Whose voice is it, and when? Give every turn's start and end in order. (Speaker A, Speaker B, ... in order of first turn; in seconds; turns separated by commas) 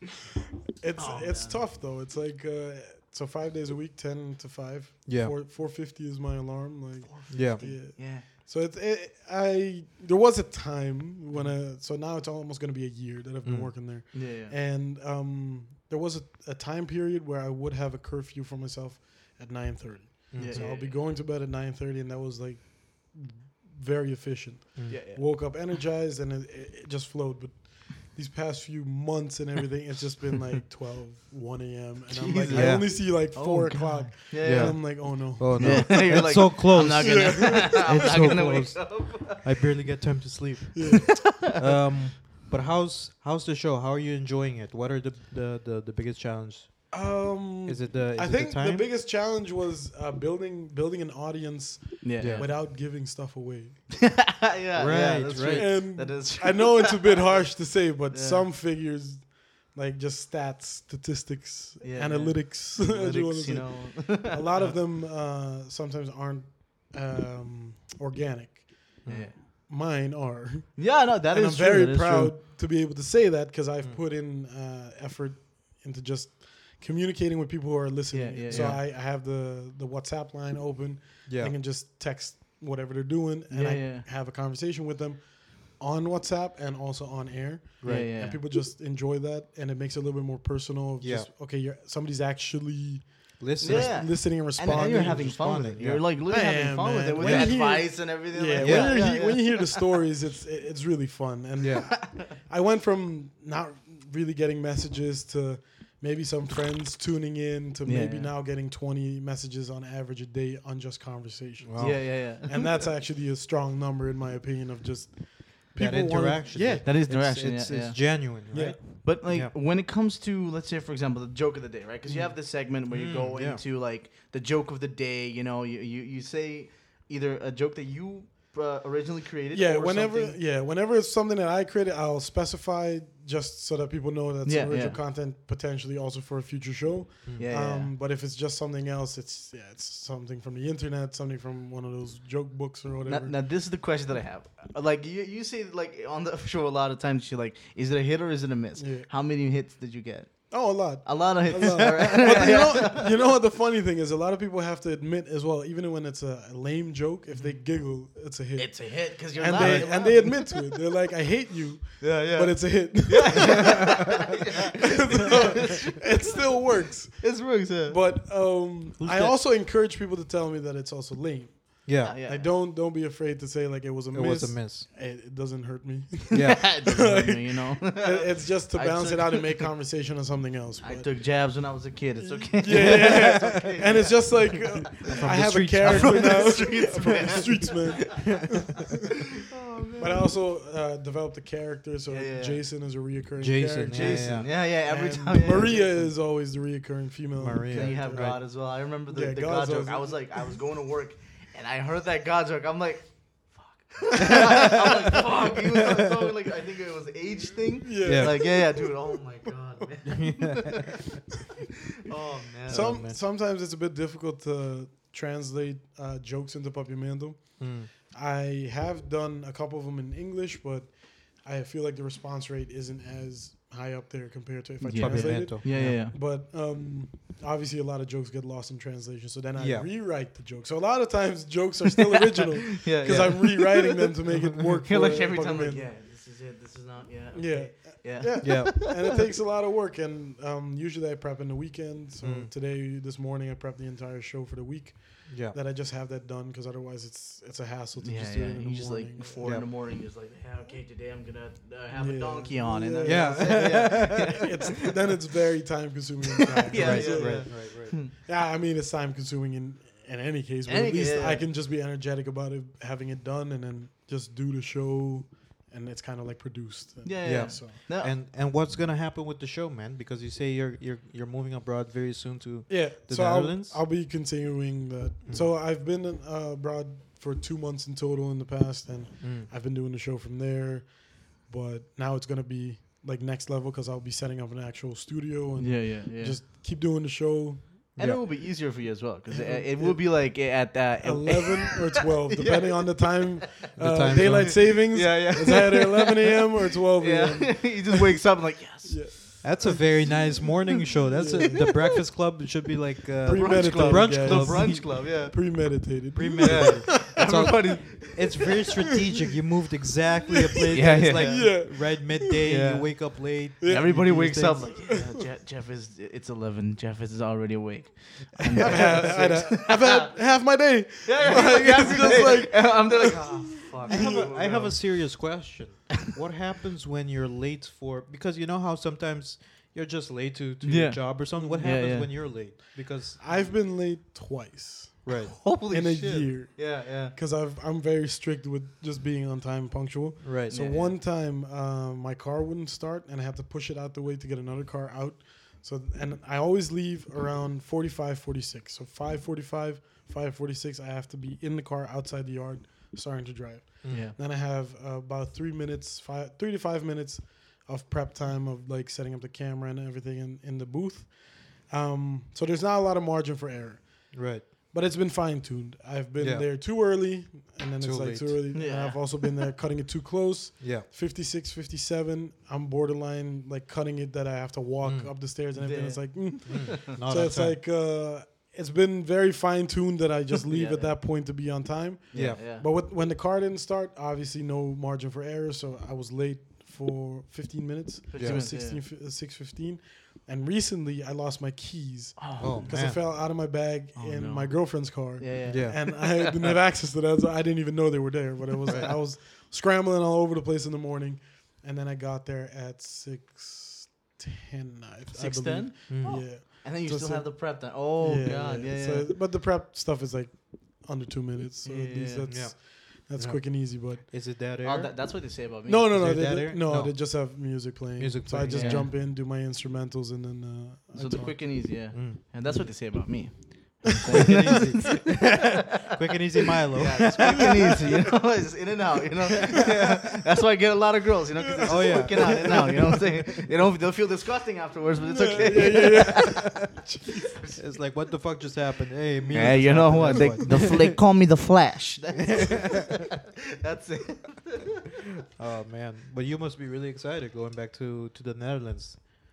Speaker A: 0.8-36.5, Speaker B: 1.0-1.6, Speaker C: 5.1-5.3, Speaker B: 7.0-8.3, Speaker C: 7.3-7.6, Speaker C: 13.4-13.7, Speaker B: 14.1-14.6, Speaker C: 20.3-20.6, Speaker B: 20.4-21.0, Speaker B: 24.9-25.2, Speaker B: 32.1-39.5, Speaker C: 32.5-32.9, Speaker C: 34.4-48.9, Speaker A: 37.0-38.4, Speaker A: 40.7-41.2, Speaker B: 41.3-41.6, Speaker A: 46.9-53.9, Speaker B: 52.0-52.5, Speaker C: 52.2-52.5, Speaker B: 54.0-57.5, Speaker C: 54.8-55.7, Speaker A: 55.5-95.7, Speaker B: 58.1-58.4, Speaker B: 61.8-64.8, Speaker C: 69.0-69.3, Speaker B: 69.1-69.4, Speaker B: 70.8-72.4, Speaker B: 78.1-78.8, Speaker C: 78.5-78.8, Speaker C: 81.3-81.6, Speaker B: 83.5-84.0, Speaker C: 87.8-88.1, Speaker B: 87.8-88.4, Speaker C: 91.0-91.3, Speaker C: 93.4-96.0, Speaker B: 93.6-99.8, Speaker A: 96.2-116.9, Speaker C: 97.2-97.6, Speaker C: 98.6-99.0, Speaker C: 101.6-101.9, Speaker B: 107.9-108.3, Speaker C: 111.6-112.0, Speaker B: 111.8-112.8, Speaker C: 115.8-119.5, Speaker B: 116.6-130.4, Speaker A: 118.5-119.0, Speaker A: 122.1-122.3, Speaker C: 122.7-123.6, Speaker A: 129.5-143.4, Speaker B: 134.5-135.0, Speaker B: 137.4-137.9, Speaker B: 143.1-153.1, Speaker A: 148.8-149.1, Speaker A: 150.5-181.4, Speaker B: 157.3-157.6, Speaker B: 158.6-160.6, Speaker C: 159.6-160.0, Speaker B: 162.0-166.6, Speaker B: 167.2-168.0, Speaker C: 169.0-169.4, Speaker C: 171.9-172.2, Speaker B: 172.0-172.5, Speaker C: 174.1-174.9, Speaker C: 176.3-176.6, Speaker B: 176.4-179.7, Speaker B: 180.8-188.4, Speaker A: 182.2-188.9, Speaker C: 182.7-183.8, Speaker C: 185.1-186.7, Speaker B: 189.4-190.2, Speaker A: 190.0-200.6, Speaker B: 192.1-192.6, Speaker C: 193.4-194.5, Speaker B: 193.9-196.1, Speaker C: 197.4-198.4, Speaker B: 197.7-210.9, Speaker A: 207.8-208.9, Speaker C: 208.1-208.4, Speaker C: 210.1-210.6, Speaker B: 212.1-212.9, Speaker A: 212.7-235.9, Speaker C: 212.7-213.2, Speaker C: 217.6-217.9, Speaker B: 224.8-226.2, Speaker C: 225.0-226.0, Speaker C: 229.6-229.9, Speaker B: 232.8-233.8, Speaker C: 233.1-233.4, Speaker B: 234.8-238.9, Speaker A: 237.3-249.6, Speaker C: 238.4-238.9, Speaker C: 242.2-242.5, Speaker C: 245.3-245.6, Speaker B: 248.0-254.6, Speaker C: 249.4-249.7, Speaker A: 251.9-267.8, Speaker C: 253.0-254.4, Speaker B: 256.7-258.1, Speaker C: 256.7-258.0, Speaker B: 260.7-261.5, Speaker B: 267.0-268.1, Speaker C: 267.2-273.8, Speaker A: 272.7-287.9, Speaker C: 279.2-279.5, Speaker B: 285.6-286.4, Speaker C: 288.0-288.2, Speaker B: 288.0-291.8, Speaker A: 289.3-298.1, Speaker B: 292.3-293.3, Speaker C: 293.8-294.7, Speaker B: 294.0-299.4, Speaker A: 298.9-300.2, Speaker C: 299.4-305.3, Speaker A: 301.1-301.8, Speaker A: 303.2-307.6, Speaker B: 303.3-305.4, Speaker C: 306.1-314.7, Speaker B: 306.4-308.5, Speaker A: 310.7-312.4, Speaker B: 310.7-311.6, Speaker B: 312.4-320.2, Speaker A: 313.6-315.0, Speaker A: 318.4-324.1, Speaker C: 318.6-319.2, Speaker B: 321.0-325.2, Speaker C: 321.3-322.3, Speaker C: 323.9-333.4, Speaker B: 330.6-332.4, Speaker A: 331.4-332.2, Speaker A: 333.2-414.0, Speaker C: 335.1-335.4, Speaker B: 335.4-337.1, Speaker C: 340.2-340.6, Speaker B: 340.5-341.0, Speaker C: 353.8-354.1, Speaker B: 353.9-354.2, Speaker C: 364.1-364.5, Speaker C: 366.2-366.5, Speaker C: 367.8-368.4, Speaker B: 368.5-369.2, Speaker C: 370.6-370.9, Speaker C: 374.8-375.1, Speaker B: 375.6-376.7, Speaker C: 376.5-377.6, Speaker B: 380.4-381.0, Speaker B: 382.1-382.7, Speaker C: 382.1-382.4, Speaker B: 388.1-388.8, Speaker B: 392.2-393.1, Speaker C: 392.4-393.0, Speaker B: 393.9-396.3, Speaker C: 395.5-395.8, Speaker B: 405.1-409.1, Speaker C: 405.9-406.3, Speaker B: 411.6-412.3, Speaker C: 412.3-414.9, Speaker B: 414.6-416.1, Speaker A: 415.7-421.4, Speaker C: 415.9-417.3, Speaker C: 418.0-418.9, Speaker B: 418.5-418.9, Speaker B: 420.9-425.0, Speaker C: 421.2-422.7, Speaker C: 424.1-427.8, Speaker A: 424.2-424.5, Speaker B: 426.8-436.7, Speaker A: 427.2-428.1, Speaker C: 429.5-429.9, Speaker A: 431.4-432.9, Speaker C: 431.6-433.5, Speaker A: 435.0-437.3, Speaker C: 435.8-436.4, Speaker B: 437.4-437.7, Speaker C: 437.6-441.0, Speaker B: 439.3-444.7, Speaker C: 442.3-442.8, Speaker C: 445.4-449.0